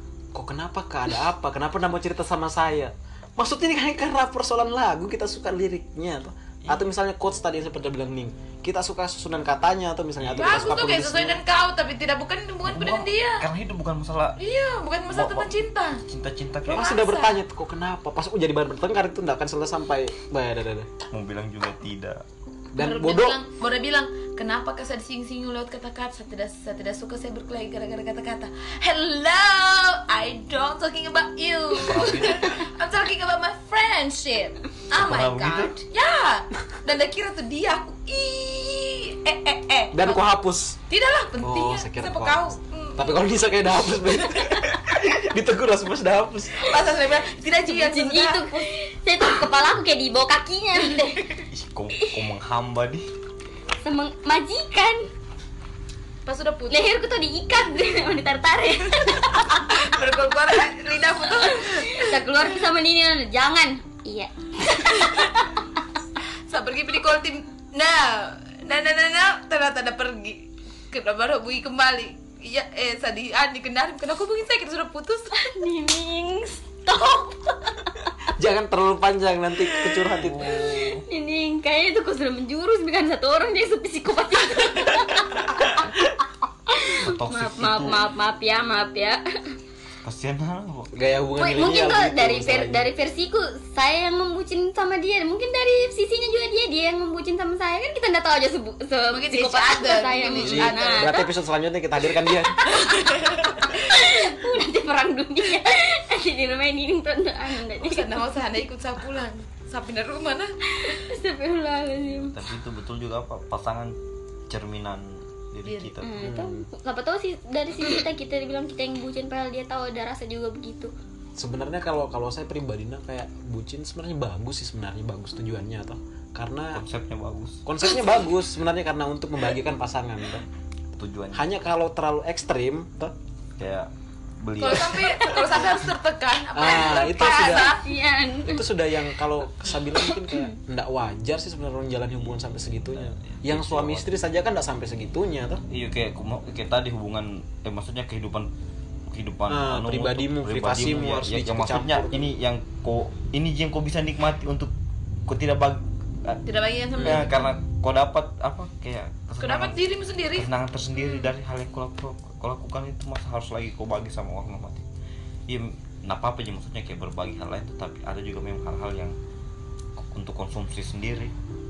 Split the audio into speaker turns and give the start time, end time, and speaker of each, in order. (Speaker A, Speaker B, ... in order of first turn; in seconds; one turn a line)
Speaker A: 0.3-11.4
Speaker B: 10.2-11.0
Speaker C: 10.4-13.4
Speaker B: 12.6-14.4
Speaker C: 14.4-16.0
Speaker B: 15.1-17.0
Speaker A: 16.7-20.9
Speaker C: 16.7-17.4
Speaker B: 21.1-22.2
Speaker A: 22.7-23.4
Speaker C: 22.8-40.2
Speaker B: 31.7-32.6
Speaker B: 34.9-35.8
Speaker A: 39.9-40.8
Speaker C: 40.9-43.3
Speaker A: 41.4-46.8
Speaker C: 46.5-48.7
Speaker D: 47.6-51.3
Speaker B: 51.4-53.1
Speaker D: 53.8-55.1
Speaker C: 56.2-56.9
Speaker D: 56.7-59.7
Speaker C: 59.7-62.3
Speaker D: 61.5-65.4
Speaker C: 64.9-65.3
Speaker C: 66.5-75.4
Speaker D: 75.3-77.9
Speaker A: 78.3-80.6
Speaker B: 80.0-81.0
Speaker D: 80.9-85.9
Speaker D: 86.7-89.2
Speaker B: 86.8-88.0
Speaker B: 90.0-90.9
Speaker A: 90.9-92.9
Speaker D: 91.4-101.3
Speaker C: 99.1-101.2
Speaker A: 100.4-102.8
Speaker D: 102.6-108.3
Speaker C: 102.8-104.2
Speaker C: 107.8-110.6
Speaker D: 110.8-112.3
Speaker B: 112.1-114.0
Speaker B: 114.5-116.2
Speaker C: 115.7-115.9
Speaker D: 116.0-120.9
Speaker A: 116.2-116.7
Speaker A: 121.3-126.8
Speaker B: 126.7-127.7
Speaker A: 127.7-130.5
Speaker B: 130.9-131.5
Speaker A: 131.3-133.2
Speaker B: 133.6-133.9
Speaker B: 134.4-135.4
Speaker C: 134.6-137.8
Speaker A: 136.5-137.7
Speaker D: 136.7-138.7
Speaker A: 138.4-145.6
Speaker D: 140.0-140.5
Speaker B: 142.9-144.1
Speaker B: 145.7-148.5
Speaker B: 149.1-154.7
Speaker A: 149.5-152.3
Speaker B: 155.2-156.4
Speaker C: 156.4-157.4
Speaker B: 157.0-159.8
Speaker A: 157.0-157.3
Speaker C: 159.4-160.5
Speaker B: 160.3-164.8
Speaker B: 165.5-169.2
Speaker B: 170.0-171.3